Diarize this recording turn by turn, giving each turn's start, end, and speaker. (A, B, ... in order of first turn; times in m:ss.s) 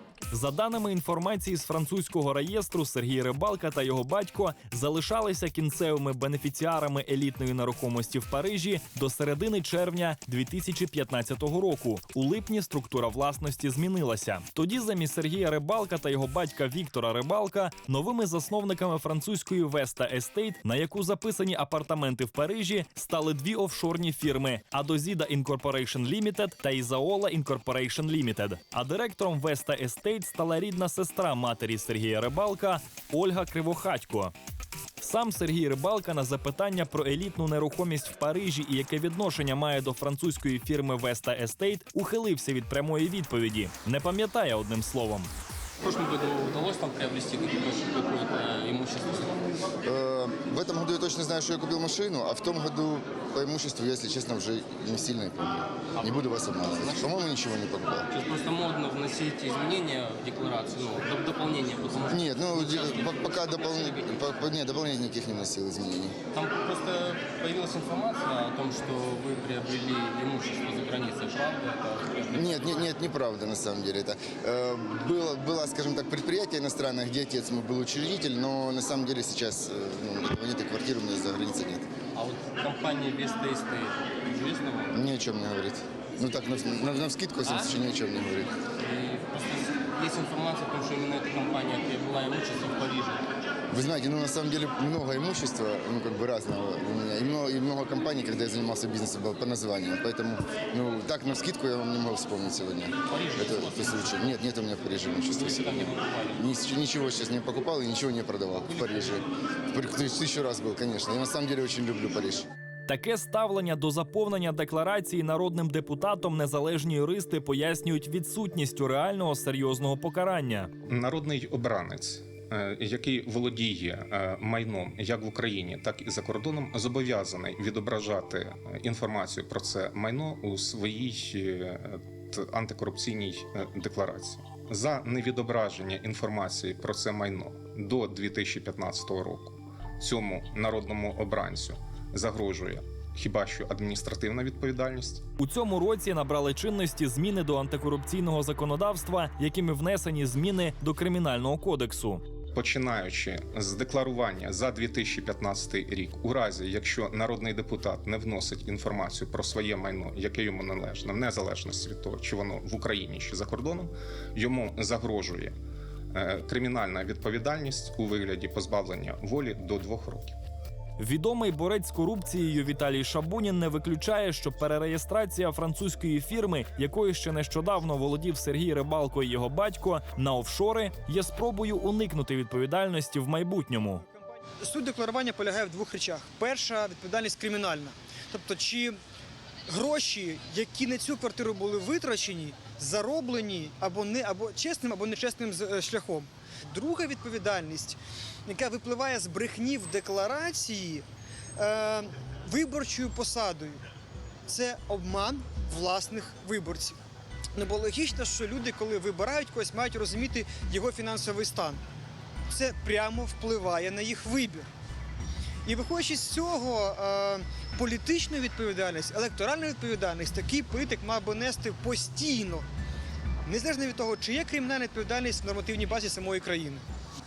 0:00.3-0:34.3 A
0:35.0-0:45.3 A
0:45.8-0:49.5 B
0:49.8-0:58.1 C
0:56.7-0:57.2 B
0:58.1-1:04.3 B
1:02.1-1:06.2 C
1:06.3-1:12.9 B
1:12.3-1:21.8 C
1:22.2-1:24.9 B
1:24.9-1:28.5 C
1:28.8-1:33.3 B
1:33.7-1:52.5 C
1:43.1-1:44.3 B
1:45.3-1:46.4 B
1:48.7-1:49.1 B
1:52.9-2:00.7 A
2:00.9-2:25.2 D
2:25.4-2:32.2 A
2:32.6-2:45.6 D
2:46.1-2:50.3 D
2:51.0-3:04.0 A
3:04.6-3:09.0 E
3:09.7-3:21.0 E
3:21.6-3:23.8 E
3:24.5-3:27.0 E
3:27.6-3:31.8 E
3:32.5-3:34.7 E
3:35.6-3:42.7 E
3:43.4-3:46.8 E